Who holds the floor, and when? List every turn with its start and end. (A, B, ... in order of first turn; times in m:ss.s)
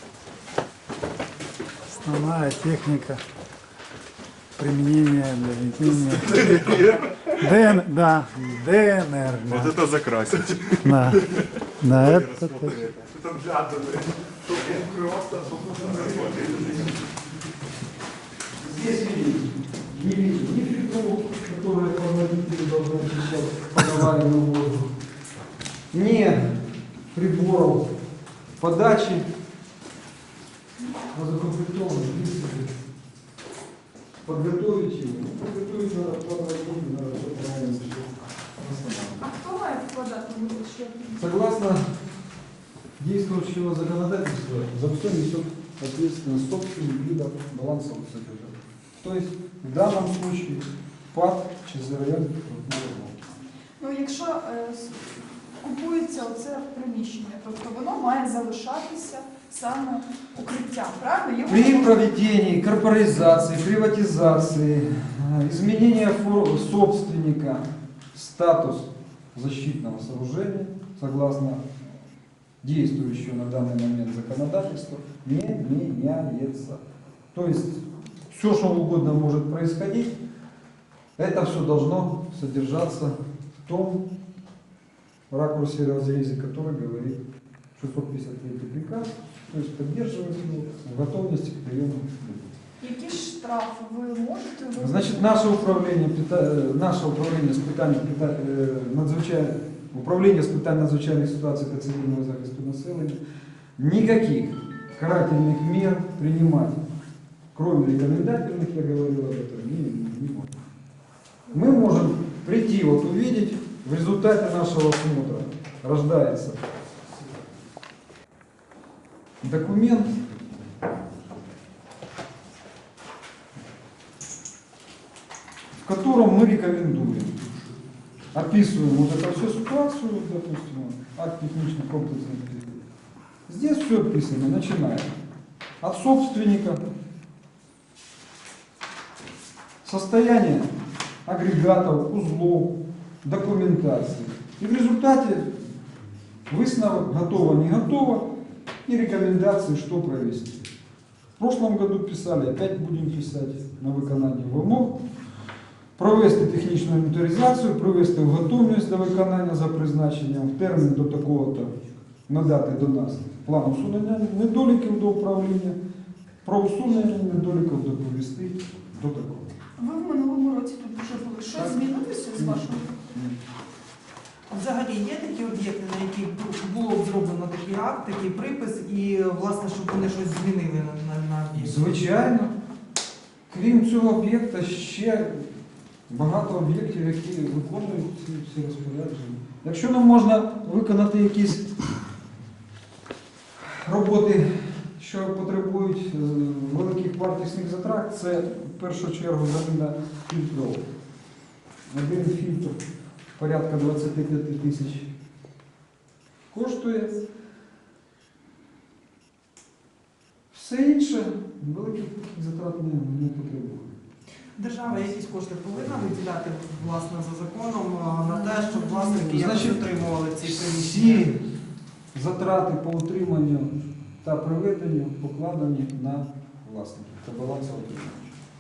0:02.0-0:03.2 A
0:04.6-0:09.9 A
0:06.3-0:07.2 B
0:09.5-0:10.8 B
0:10.7-0:11.2 A
0:11.8-0:12.9 A
0:11.9-0:17.0 B
0:18.6-0:24.9 C
0:25.9-0:26.6 C
0:27.1-0:27.9 C
0:28.6-0:29.2 C
0:31.1-0:32.7 C
0:34.2-0:39.3 C
0:39.2-0:41.3 D
0:41.2-0:41.8 C
0:43.0-0:53.2 C
0:53.8-1:02.0 D
1:01.4-1:11.6 C
1:12.6-1:16.8 C
1:17.3-1:20.2 C
1:21.2-1:23.1 C
1:23.7-1:24.0 C
1:25.3-1:27.2 C
1:27.8-1:32.5 C
1:32.8-1:35.4 D
1:34.8-1:43.2 C
1:43.8-1:46.8 C
1:47.6-1:50.5 C
1:51.5-1:56.6 C
1:59.4-2:00.2 C
2:05.8-2:07.4 C
2:08.3-2:12.8 C
2:13.5-2:15.1 C
2:15.8-2:16.8 C
2:19.8-2:20.7 C
2:21.3-2:25.5 C
2:26.5-2:28.3 C
2:28.9-2:30.6 C
2:31.4-2:35.0 C
2:36.0-2:41.7 C
2:42.3-2:45.8 C
2:46.4-2:49.5 C
2:49.8-2:53.0 D
2:51.5-2:51.8 C
2:52.3-2:53.4 C
2:54.5-3:01.9 E
3:01.6-3:02.5 C
3:03.5-3:05.5 C
3:06.1-3:11.7 C
3:13.6-3:20.8 C
3:21.9-3:22.8 C
3:23.4-3:25.1 C
3:26.5-3:27.1 C
3:30.5-3:33.9 C
3:34.6-3:41.3 E
3:38.9-3:39.9 C
3:40.4-3:41.4 C
3:42.1-3:48.3 C